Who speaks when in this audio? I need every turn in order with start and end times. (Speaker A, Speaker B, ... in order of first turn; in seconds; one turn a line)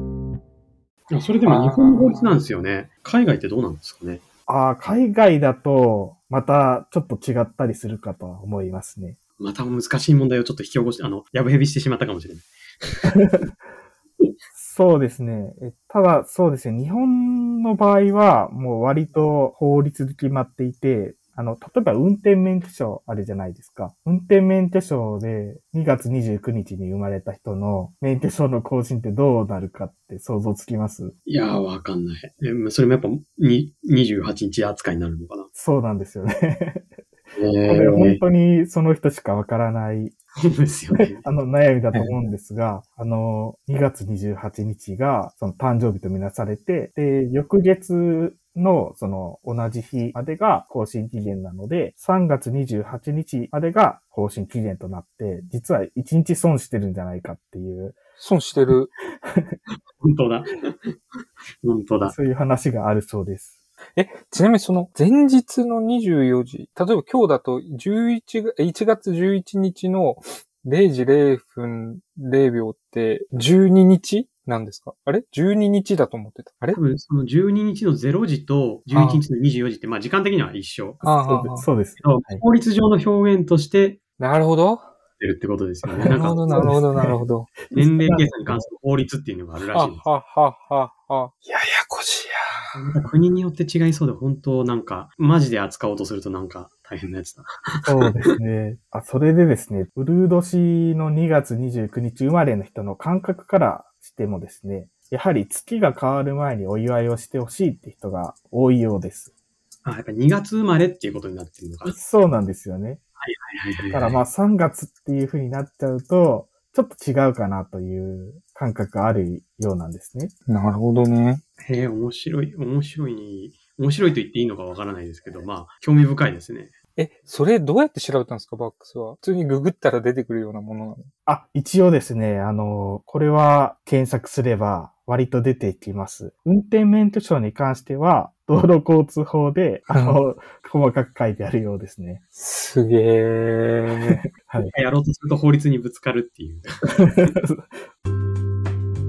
Speaker A: 1.1-4.2
Speaker B: 1.4-2.3
Speaker C: 4.5-9.2
Speaker A: 9.4-13.1
Speaker C: 13.1-13.5
Speaker C: 14.5-31.1
Speaker A: 31.2-35.5
Speaker C: 35.5-36.9
Speaker A: 37.4-38.2
Speaker C: 37.6-40.1
Speaker A: 40.4-41.3
Speaker C: 40.9-58.0
Speaker B: 58.2-58.9
Speaker A: 60.0-62.1
Speaker C: 62.0-63.5
Speaker B: 64.0-76.8
Speaker A: 76.7-81.0
Speaker B: 78.9-79.2
Speaker B: 81.0-81.7
Speaker C: 81.0-82.4
Speaker A: 82.0-84.0
Speaker B: 84.2-84.9
Speaker A: 85.2-86.8
Speaker C: 85.8-88.7
Speaker B: 86.1-87.5
Speaker A: 87.7-90.0
Speaker B: 89.7-92.8
Speaker A: 92.7-98.0
Speaker C: 97.8-109.3
Speaker A: 109.8-112.0
Speaker C: 111.8-113.0
Speaker A: 113.2-114.2
Speaker C: 113.9-120.3
Speaker B: 120.5-121.4
Speaker A: 121.6-126.7
Speaker B: 127.0-131.1
Speaker C: 131.2-142.2
Speaker B: 139.9-140.2
Speaker B: 142.3-144.2
Speaker C: 144.1-144.7
Speaker A: 144.7-147.3
Speaker C: 147.0-147.7